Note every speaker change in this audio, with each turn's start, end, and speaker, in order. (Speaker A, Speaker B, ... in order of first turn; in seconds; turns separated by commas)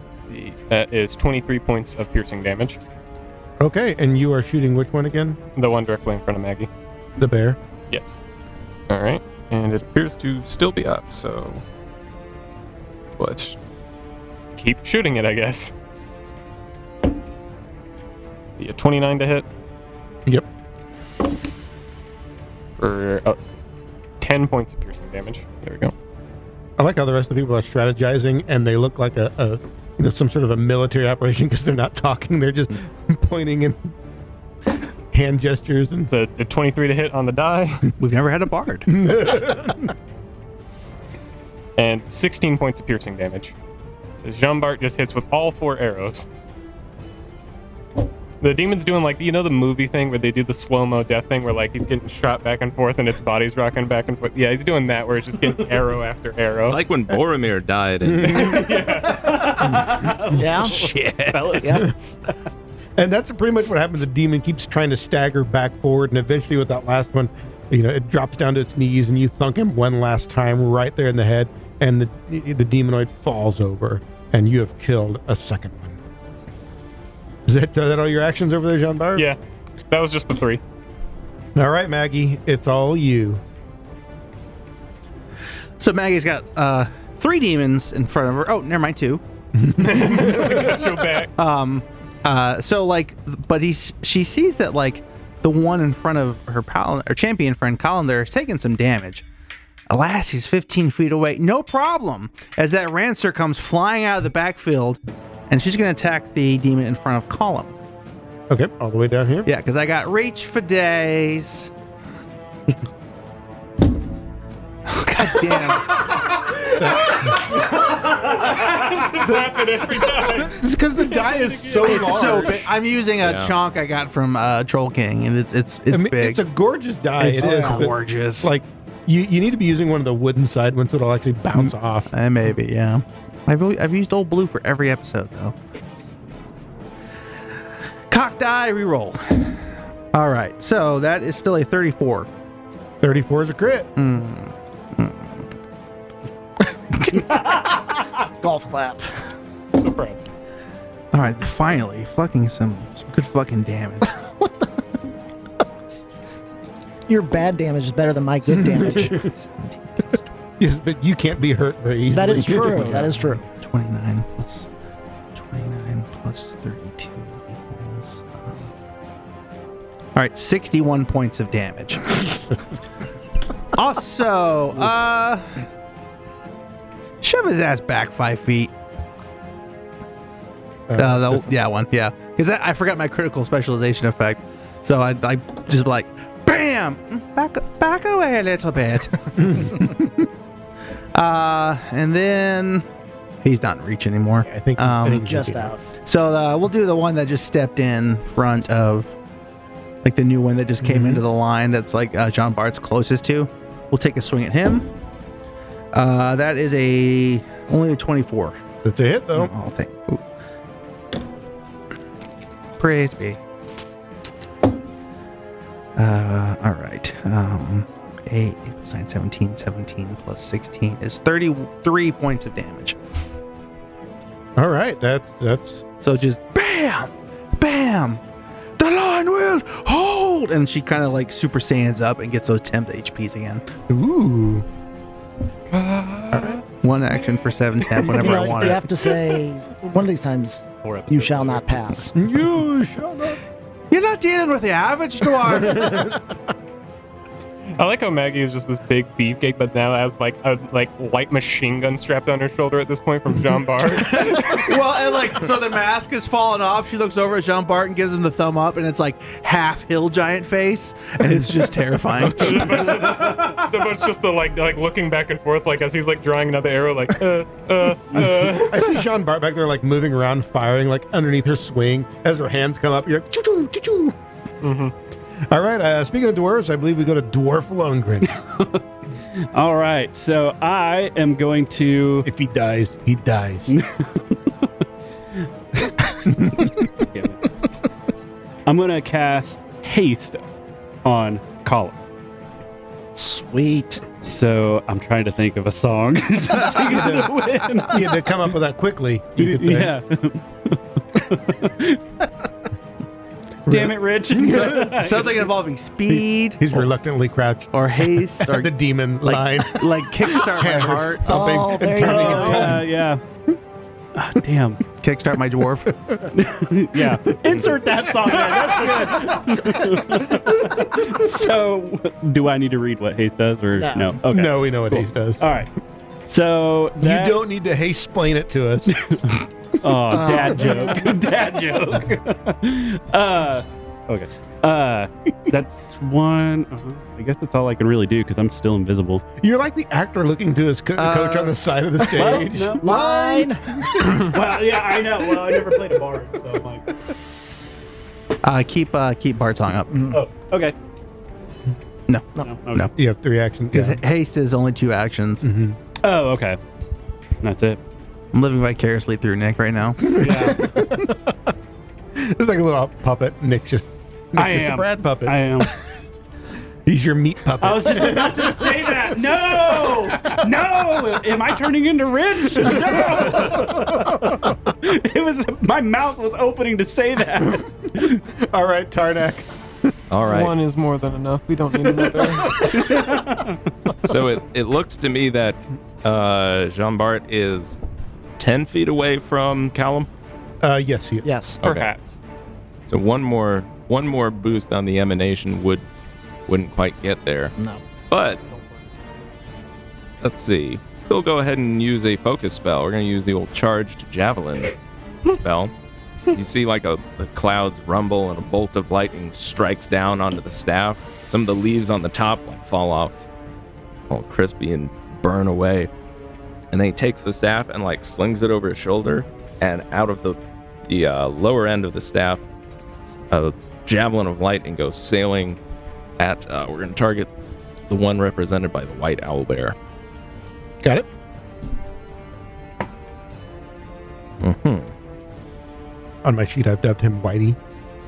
Speaker A: 0.2-2.8, Speaker B: 3.6-5.4, Speaker A: 5.5-6.7, Speaker B: 7.2-7.6, Speaker A: 7.9-8.2, Speaker A: 8.9-11.6, Speaker A: 13.2-13.6, Speaker A: 14.6-15.7, Speaker A: 18.6-19.5, Speaker A: 22.8-23.4, Speaker A: 24.2-25.9, Speaker B: 26.8-33.9, Speaker B: 35.1-36.1, Speaker A: 36.1-37.9, Speaker C: 38.0-38.9, Speaker B: 38.9-39.9, Speaker A: 41.8-43.5, Speaker A: 44.2-46.2, Speaker A: 48.4-56.8, Speaker D: 56.7-58.7, Speaker B: 58.0-58.9, Speaker A: 58.2-59.7, Speaker E: 59.1-60.7, Speaker B: 59.5-60.4, Speaker F: 60.3-60.8, Speaker C: 60.5-61.8, Speaker E: 61.3-61.9, Speaker F: 61.5-61.9, Speaker B: 63.0-76.0, Speaker B: 77.5-79.3, Speaker A: 79.9-80.6, Speaker B: 81.5-83.4, Speaker C: 85.8-89.2, Speaker B: 89.5-90.8, Speaker A: 89.8-91.3, Speaker C: 91.3-99.2, Speaker C: 99.9-107.7, Speaker B: 108.5-109.5, Speaker C: 109.4-111.7, Speaker C: 114.8-116.1, Speaker B: 116.8-117.4, Speaker A: 116.8-122.4, Speaker B: 120.2-122.7, Speaker C: 121.8-126.4, Speaker D: 123.2-123.5, Speaker B: 125.9-132.1, Speaker C: 127.2-128.5, Speaker F: 127.4-127.9, Speaker C: 131.6-135.6, Speaker C: 138.1-139.6, Speaker C: 140.1-142.3, Speaker B: 143.0-143.9, Speaker C: 143.9-145.4, Speaker F: 147.1-149.1, Speaker A: 149.7-150.2, Speaker C: 151.1-154.2, Speaker F: 157.1-159.2, Speaker B: 158.6-159.0, Speaker C: 158.6-160.3, Speaker B: 160.6-163.2, Speaker F: 162.1-163.4, Speaker C: 162.3-164.7, Speaker C: 165.3-168.7, Speaker C: 170.1-172.2, Speaker C: 173.7-175.5, Speaker C: 177.2-178.7, Speaker B: 180.9-181.5, Speaker C: 180.9-189.8, Speaker B: 189.4-190.1, Speaker C: 191.1-192.8, Speaker C: 193.4-195.2, Speaker B: 194.4-195.7, Speaker F: 195.2-195.8, Speaker C: 196.0-199.1, Speaker C: 200.0-204.9, Speaker B: 200.8-201.2, Speaker C: 205.9-208.6, Speaker B: 208.8-209.5, Speaker C: 209.3-210.2, Speaker C: 212.8-213.4, Speaker C: 215.9-223.0, Speaker B: 224.6-225.8, Speaker C: 226.0-228.2, Speaker C: 228.8-233.6, Speaker B: 233.9-234.7, Speaker A: 235.7-236.6, Speaker B: 236.3-236.6, Speaker C: 236.8-238.8, Speaker F: 238.1-242.1, Speaker E: 240.8-241.8, Speaker B: 242.1-243.4, Speaker C: 243.9-246.1, Speaker B: 245.7-246.1, Speaker A: 247.8-254.6, Speaker C: 253.9-263.6, Speaker A: 262.2-268.9, Speaker B: 268.1-274.1, Speaker A: 274.6-274.9, Speaker B: 275.5-278.3, Speaker E: 279.5-282.3, Speaker B: 282.2-283.7, Speaker E: 283.7-284.2, Speaker E: 287.1-287.4, Speaker E: 288.6-290.5, Speaker E: 291.0-292.0, Speaker F: 293.1-294.0, Speaker E: 294.2-298.3, Speaker B: 296.9-297.3, Speaker C: 297.0-297.2, Speaker B: 297.8-299.9, Speaker E: 299.4-302.0, Speaker B: 303.6-304.9, Speaker E: 303.7-305.5, Speaker C: 304.9-306.9, Speaker B: 306.1-312.8, Speaker C: 307.7-308.7, Speaker C: 309.2-311.4, Speaker F: 311.3-312.8, Speaker E: 311.9-313.2, Speaker E: 314.1-314.8, Speaker C: 315.0-315.9, Speaker E: 316.3-325.7, Speaker B: 317.1-320.7, Speaker F: 323.8-324.2, Speaker B: 324.2-325.5, Speaker E: 326.2-327.4, Speaker B: 327.0-329.0, Speaker E: 328.9-339.2, Speaker F: 330.1-331.1, Speaker B: 330.3-330.9, Speaker B: 339.4-343.4, Speaker C: 341.0-341.5, Speaker E: 342.1-343.4, Speaker F: 342.2-343.8, Speaker E: 344.2-346.9, Speaker C: 348.4-350.1, Speaker F: 349.9-350.2, Speaker E: 350.1-350.7, Speaker C: 352.1-352.9, Speaker E: 352.4-352.9, Speaker B: 352.9-354.0, Speaker C: 353.7-355.4, Speaker B: 355.4-355.8, Speaker E: 356.0-356.6, Speaker E: 357.4-357.8, Speaker C: 358.3-360.2, Speaker B: 360.1-361.3, Speaker E: 360.2-360.7, Speaker B: 362.1-365.8, Speaker E: 364.4-365.7, Speaker B: 366.9-370.4, Speaker E: 367.6-378.2, Speaker B: 372.8-374.2, Speaker B: 377.4-379.5, Speaker D: 380.1-380.6, Speaker A: 380.2-382.6, Speaker E: 382.7-383.6, Speaker D: 384.0-387.8, Speaker D: 388.4-390.1, Speaker B: 390.6-391.3, Speaker F: 391.2-391.6, Speaker D: 391.6-391.9, Speaker A: 391.6-392.2, Speaker D: 392.9-395.8, Speaker D: 396.5-397.5, Speaker F: 397.6-397.8, Speaker D: 398.1-398.4, Speaker D: 400.2-404.7, Speaker D: 405.2-405.7, Speaker D: 406.3-413.3, Speaker D: 414.1-415.9, Speaker D: 416.7-422.4, Speaker D: 423.3-425.6, Speaker D: 426.2-427.3, Speaker D: 427.9-429.7, Speaker B: 430.8-431.1, Speaker D: 434.4-434.9, Speaker B: 436.2-437.6